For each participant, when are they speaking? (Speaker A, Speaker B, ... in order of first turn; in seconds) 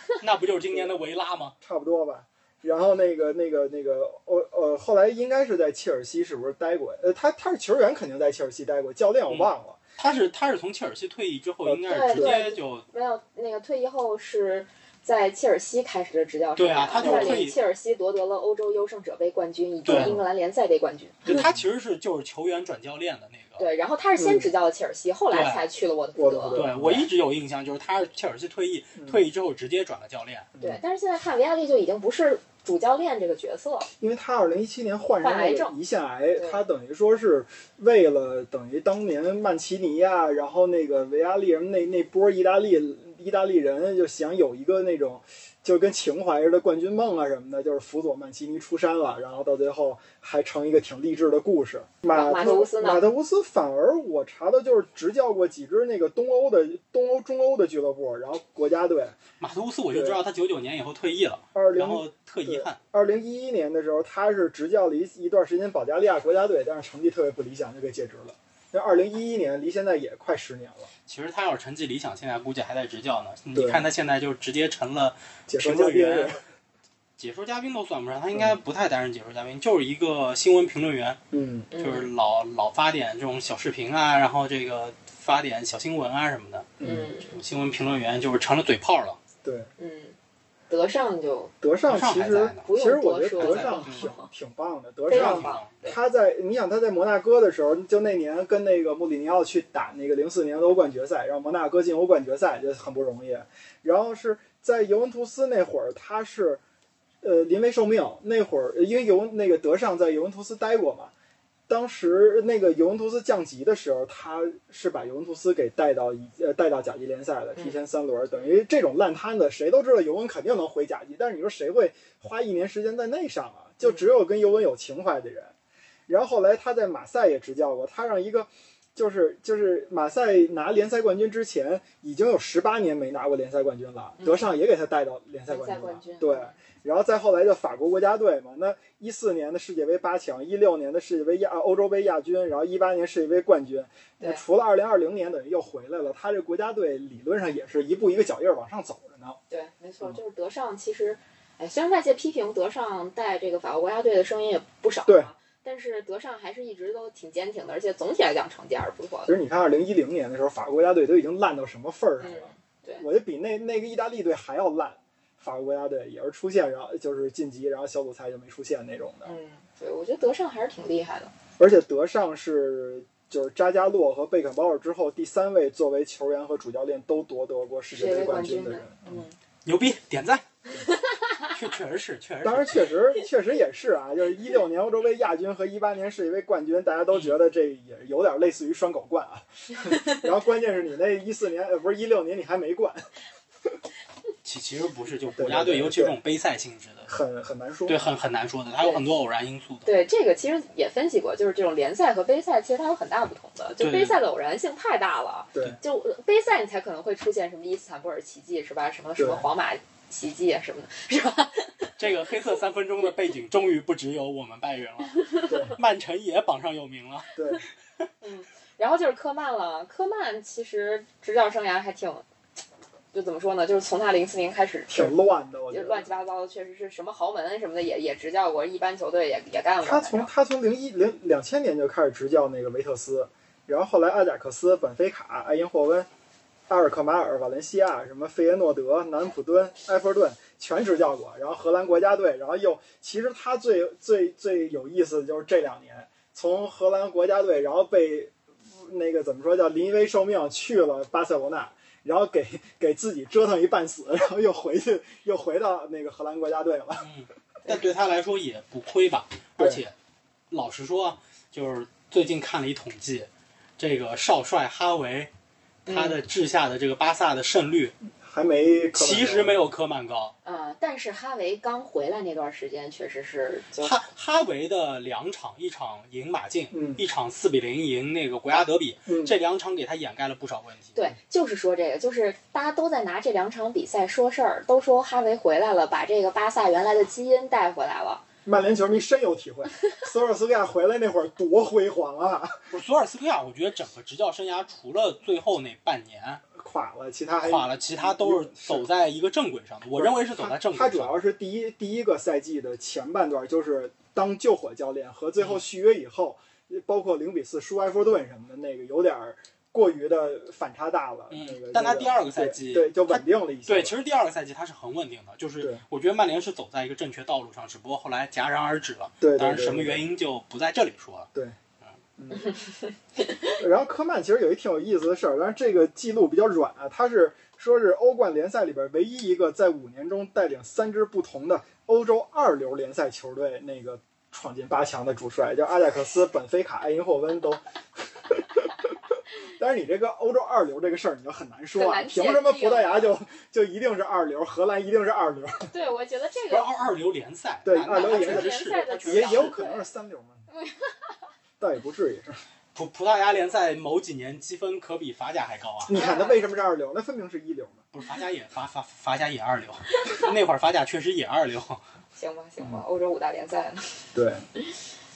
Speaker A: 0.2-1.5, 9.3-12.9, 16.6-17.6, 19.9-20.2, 21.2-23.7, 25.3-25.6, 26.5-30.5, 59.4-62.8, 71.1-76.4, 77.2-81.2, 81.8-89.2, 91.9-92.7, 93.4-94.1, 95.1-95.8, 179.7-180.5, 181.5-182.9, 194.4-197.1, 197.9-199.9, 203.8-204.2, 212.0-217.3, 257.0-259.9, 260.5-265.3, 265.9-267.9, 268.9-270.3, 273.8-281.0, 292.7-296.4, 297.4-301.2, 311.3-321.3, 346.5-349.5, 352.8-356.0, 357.9-361.8
Speaker B: 1.6-9.8, 11.7-12.4, 17.0-17.5, 19.9-20.2, 21.2-21.6, 24.2-24.5, 26.2-27.1, 29.0-29.2, 30.6-30.8, 34.0-59.2, 59.9-60.2, 61.5-70.9, 73.5-73.9, 75.5-76.4, 81.3-81.7, 86.8-87.1, 89.4-89.7, 91.6-106.6, 107.2-111.1, 111.7-125.5, 126.1-149.4, 155.1-155.3, 159.3-169.3, 171.6-179.2, 182.4-193.1, 195.4-196.2, 197.1-198.0, 209.2-209.4, 215.5-215.8, 217.3-217.7, 224.9-226.1, 229.8-236.1, 236.7-257.1, 268.0-269.7, 276.7-277.0, 279.1-279.4, 288.4-292.7, 296.5-298.9, 299.9-314.0, 319.2-320.0, 322.2-322.5, 323.5-345.7, 347.6-350.4, 351.6-352.4, 355.9-357.8, 364.1-364.4
Speaker C: 11.8-21.2, 23.6-26.6, 30.6-33.9, 35.2-35.8, 52.1-53.0, 81.7-82.1, 86.8-87.4, 89.8-90.2, 90.7-91.5, 92.6-94.3, 95.1-96.0, 134.2-134.5, 135.5-136.6, 149.5-159.3, 162.2-163.0, 169.2-171.3, 177.9-179.4, 180.8-181.2, 199.9-212.0, 215.2-215.7, 218.2-222.2, 223.1-225.2, 225.7-230.3, 265.9-266.2, 270.4-274.0, 280.9-288.2, 341.8-343.2, 345.7-346.7, 347.9-349.9, 350.5-351.2, 355.9-356.4, 362.2-364.1